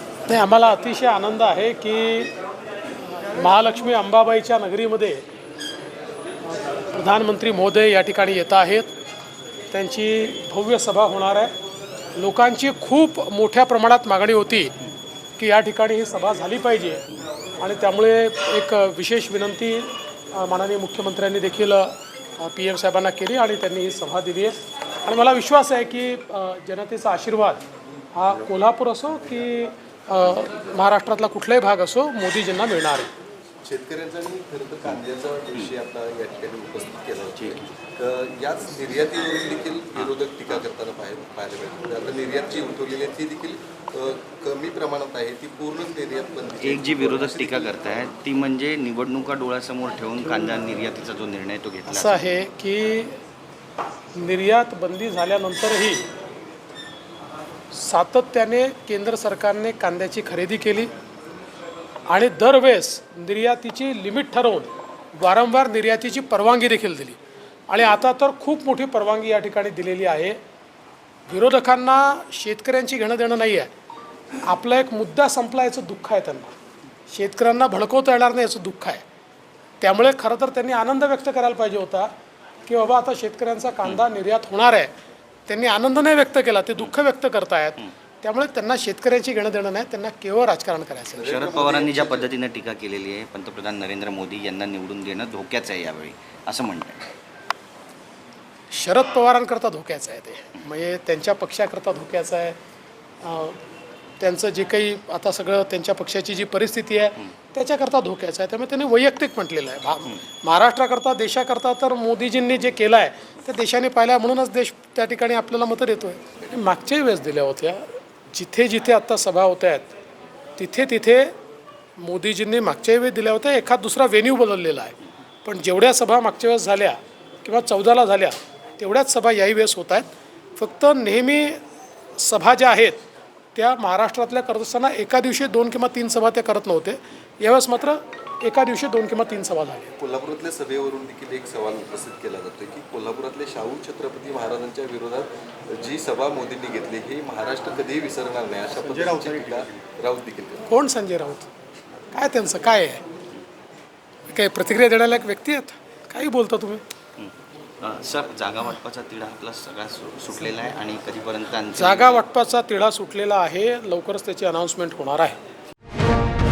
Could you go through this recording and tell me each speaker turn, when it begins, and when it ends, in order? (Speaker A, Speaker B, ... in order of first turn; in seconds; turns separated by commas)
Speaker A: 0.3-2.3, Speaker A: 3.4-5.2, Speaker A: 6.9-8.9, Speaker A: 9.7-11.5, Speaker A: 12.2-14.7, Speaker A: 15.4-17.0, Speaker A: 17.6-27.6, Speaker A: 28.1-33.1, Speaker B: 33.6-47.8, Speaker C: 46.6-52.2, Speaker A: 51.9-53.1, Speaker A: 54.2-56.0, Speaker A: 57.7-60.9, Speaker A: 62.1-67.2, Speaker A: 67.7-70.4, Speaker A: 71.3-73.7, Speaker A: 74.5-76.5, Speaker A: 77.1-79.0, Speaker A: 79.8-82.1, Speaker A: 82.7-84.9, Speaker A: 85.5-91.2, Speaker B: 91.1-92.3, Speaker C: 91.2-97.0, Speaker A: 98.7-102.6, Speaker A: 103.2-103.6, Speaker A: 104.2-119.9, Speaker A: 120.6-121.3, Speaker A: 122.0-131.6, Speaker A: 132.2-133.0, Speaker A: 133.5-139.9, Speaker B: 140.0-150.7, Speaker A: 150.7-151.5, Speaker A: 152.1-153.0, Speaker A: 154.3-156.8, Speaker C: 157.2-162.2, Speaker A: 161.8-165.4